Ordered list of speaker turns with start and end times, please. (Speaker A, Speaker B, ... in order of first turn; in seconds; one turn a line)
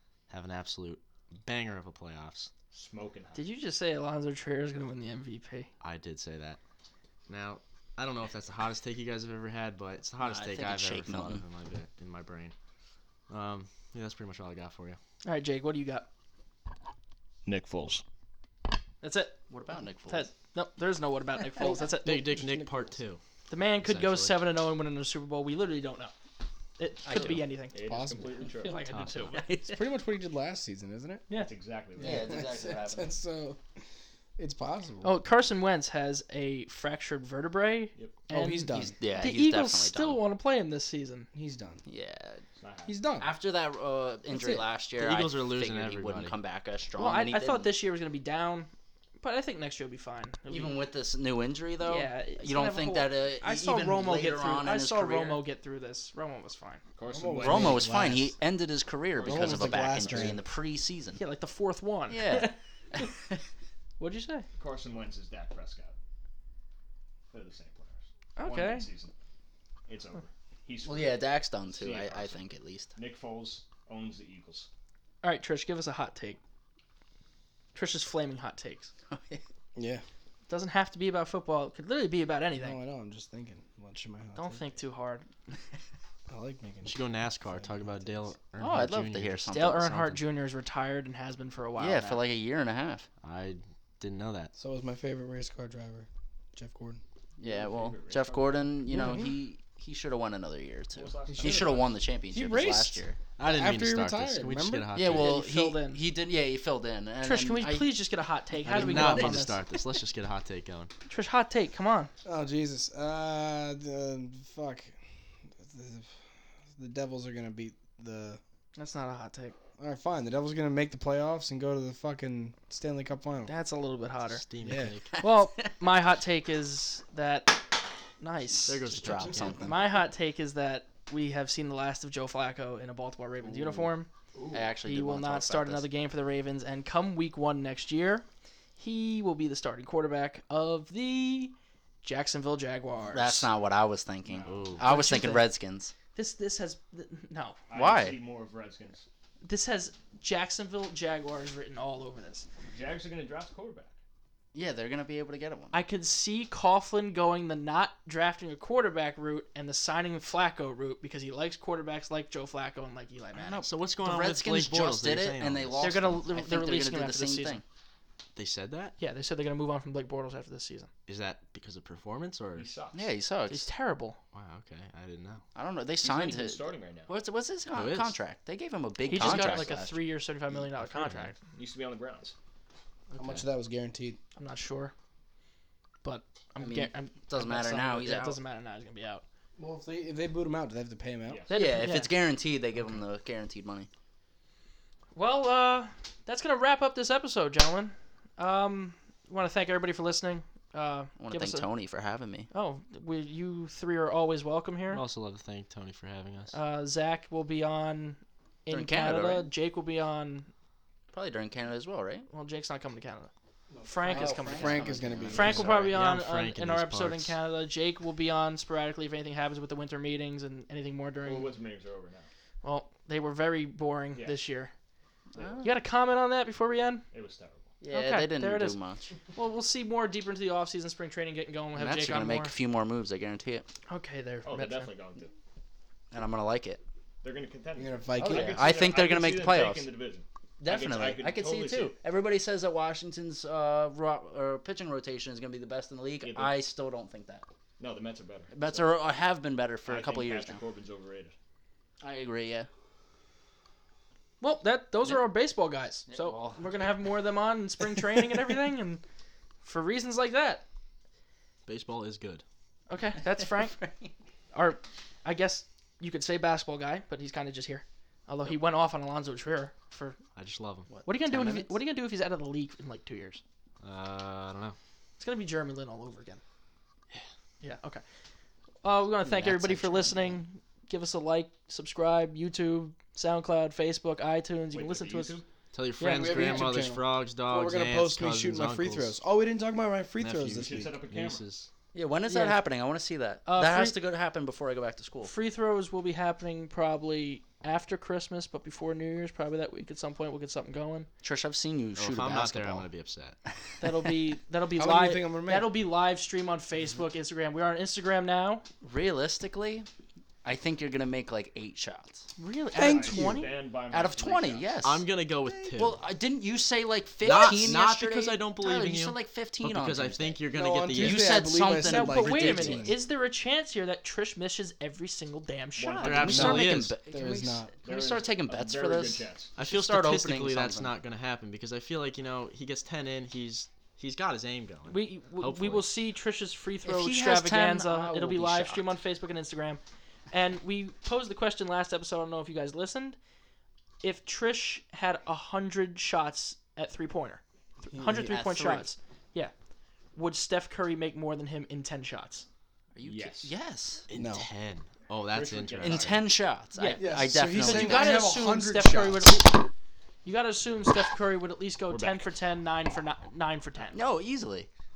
Speaker A: 0.3-2.5
Speaker B: 2.7-3.4
Speaker C: 3.3-5.7
Speaker A: 5.8-6.6
Speaker A: 7.3-12.5
Speaker D: 10.2-11.4
Speaker A: 13.3-15.0
Speaker C: 15.2-16.1
Speaker B: 17.4-18.0
Speaker C: 19.0-19.4
Speaker D: 19.5-20.3
Speaker C: 20.1-22.2
Speaker E: 21.6-22.9
Speaker A: 22.0-23.2
Speaker C: 23.5-26.1
Speaker A: 23.8-24.4
Speaker C: 26.8-27.8
Speaker D: 27.0-27.5
Speaker B: 27.7-28.9
Speaker E: 27.8-28.5
Speaker C: 28.5-29.4
Speaker D: 28.9-29.8
Speaker E: 29.7-31.3
Speaker B: 31.3-32.4
Speaker E: 31.9-33.6
Speaker D: 32.0-33.1
Speaker E: 34.4-35.2
Speaker C: 35.0-41.3
Speaker E: 38.3-39.0
Speaker D: 38.7-40.2
Speaker E: 41.3-41.8
Speaker D: 41.8-42.4
Speaker B: 42.6-43.0
Speaker E: 42.9-43.3
Speaker D: 43.2-47.7
Speaker E: 44.3-44.6
Speaker A: 45.0-46.4
Speaker C: 47.0-50.8
Speaker D: 50.5-55.4
Speaker C: 51.8-56.8
Speaker B: 57.0-58.0
Speaker E: 57.1-58.3
Speaker D: 57.4-61.2
Speaker B: 59.1-60.4
Speaker E: 59.2-60.4
Speaker C: 61.2-62.5
Speaker D: 62.1-63.4
Speaker C: 64.0-64.5
Speaker B: 64.6-65.9
Speaker B: 67.3-69.1
Speaker C: 68.4-68.9
Speaker B: 69.9-72.4
Speaker D: 70.8-72.9
Speaker B: 73.0-74.7
Speaker C: 75.2-76.4
Speaker C: 77.7-78.9
Speaker D: 79.1-79.4
Speaker E: 79.8-80.0
Speaker C: 80.5-82.8
Speaker E: 82.5-84.8
Speaker C: 84.3-85.3
Speaker E: 86.3-88.3
Speaker A: 86.8-89.5
Speaker D: 88.6-90.2
Speaker C: 89.5-92.2
Speaker D: 91.8-93.1
Speaker A: 93.2-94.5
Speaker E: 94.5-97.0
Speaker D: 97.4-103.2
Speaker B: 97.4-98.8
Speaker E: 98.9-99.3
Speaker B: 100.9-101.9
Speaker E: 101.3-105.1
Speaker A: 103.4-105.3
Speaker D: 104.9-108.0
Speaker C: 105.1-106.0
Speaker C: 107.2-109.6
Speaker A: 108.6-110.9
Speaker D: 108.8-109.4
Speaker C: 111.1-112.1
Speaker E: 112.2-115.0
Speaker E: 115.6-116.1
Speaker E: 116.8-118.4
Speaker C: 118.8-119.5
Speaker E: 119.8-123.5
Speaker C: 123.5-124.4
Speaker A: 124.2-125.1
Speaker E: 124.6-124.9
Speaker D: 125.2-125.7
Speaker C: 125.2-127.6
Speaker C: 128.2-128.9
Speaker A: 128.7-129.7
Speaker D: 128.8-130.0
Speaker C: 129.6-134.1
Speaker D: 133.5-133.9
Speaker D: 134.5-135.9
Speaker C: 134.8-138.2
Speaker C: 138.8-143.5
Speaker D: 143.1-145.9
Speaker B: 144.3-144.8
Speaker A: 144.4-144.8
Speaker C: 144.8-145.5
Speaker C: 146.1-147.6
Speaker B: 147.7-149.1
Speaker D: 147.7-148.2
Speaker C: 149.4-152.5
Speaker B: 152.7-154.0
Speaker D: 154.5-155.8
Speaker C: 155.7-163.6
Speaker D: 163.3-167.6
Speaker A: 163.6-166.0
Speaker C: 165.8-167.6
Speaker A: 168.3-168.9
Speaker C: 169.0-170.9
Speaker A: 171.1-172.7
Speaker B: 172.5-173.1
Speaker D: 172.9-173.7
Speaker C: 173.5-174.2
Speaker A: 174.3-175.4
Speaker D: 175.5-180.0
Speaker B: 176.0-177.1
Speaker A: 177.7-178.1
Speaker C: 179.0-181.3
Speaker B: 179.3-179.5
Speaker D: 180.5-181.2
Speaker B: 181.5-182.3
Speaker A: 183.1-183.4
Speaker E: 183.2-184.2
Speaker C: 184.3-184.9
Speaker C: 186.0-189.2
Speaker D: 186.6-188.4
Speaker E: 189.6-191.5
Speaker B: 191.2-191.6
Speaker C: 191.5-192.2
Speaker D: 191.5-193.9
Speaker C: 195.1-201.7
Speaker D: 201.2-202.5
Speaker C: 202.5-205.0
Speaker A: 204.9-206.6
Speaker C: 206.5-210.5
Speaker D: 208.7-209.5
Speaker D: 211.1-212.3
Speaker C: 212.3-213.3
Speaker E: 213.7-215.8
Speaker C: 213.8-221.5
Speaker D: 214.0-215.7
Speaker B: 215.3-216.0
Speaker A: 215.9-217.4
Speaker B: 221.2-222.3
Speaker C: 222.6-224.7
Speaker B: 224.1-224.4
Speaker B: 225.3-225.6
Speaker D: 225.3-225.7
Speaker C: 225.6-227.0
Speaker B: 227.1-227.7
Speaker D: 227.8-229.1
Speaker C: 227.9-228.8
Speaker C: 229.3-232.6
Speaker D: 231.8-233.7
Speaker C: 233.9-234.9
Speaker B: 234.4-235.3
Speaker D: 236.1-236.8
Speaker B: 237.2-242.0
Speaker E: 237.8-238.8
Speaker D: 238.2-239.9
Speaker D: 240.6-247.5
Speaker B: 246.2-246.6
Speaker B: 247.8-248.9
Speaker D: 248.5-250.6
Speaker B: 249.8-251.3
Speaker D: 252.0-252.7
Speaker C: 254.4-259.0
Speaker D: 256.1-257.0
Speaker C: 259.6-260.6
Speaker A: 261.6-262.4
Speaker C: 262.9-263.8
Speaker D: 263.3-264.1
Speaker C: 264.5-270.2
Speaker A: 270.4-270.9
Speaker D: 270.9-271.8
Speaker C: 271.1-273.4
Speaker A: 273.8-274.8
Speaker C: 275.2-276.4
Speaker C: 277.6-278.0
Speaker C: 278.8-285.4
Speaker D: 279.2-280.4
Speaker B: 284.7-285.4
Speaker A: 285.7-289.2
Speaker C: 286.0-286.4
Speaker E: 286.1-290.9
Speaker A: 290.2-291.7
Speaker B: 290.6-291.4
Speaker D: 291.9-295.3
Speaker C: 292.3-292.6
Speaker C: 293.4-294.0
Speaker C: 295.2-301.1
Speaker D: 301.2-302.9
Speaker A: 302.0-303.4
Speaker C: 303.8-308.6
Speaker E: 304.7-305.8
Speaker D: 308.8-309.9
Speaker D: 310.4-312.3
Speaker C: 312.4-313.5
Speaker E: 312.7-313.5
Speaker B: 312.8-314.8
Speaker D: 313.9-315.1
Speaker A: 314.8-316.0
Speaker D: 315.8-320.4
Speaker A: 317.2-321.4
Speaker E: 320.5-323.0
Speaker D: 320.9-322.9
Speaker C: 321.8-326.2
Speaker B: 325.8-326.8
Speaker A: 326.0-326.9
Speaker D: 326.1-330.9
Speaker E: 326.3-327.7
Speaker B: 327.8-329.5
Speaker A: 329.6-335.9
Speaker C: 334.9-343.2
Speaker D: 336.8-339.0
Speaker C: 344.0-349.5
Speaker E: 347.9-348.3
Speaker D: 348.3-348.9
Speaker C: 350.1-352.4
Speaker D: 352.9-354.0
Speaker B: 353.0-353.5
Speaker A: 354.1-356.2
Speaker E: 354.1-354.5
Speaker B: 355.3-356.2
Speaker D: 355.8-358.3
Speaker C: 356.7-359.7
Speaker E: 357.0-359.3
Speaker C: 360.2-364.0
Speaker B: 361.9-362.3
Speaker D: 363.9-364.7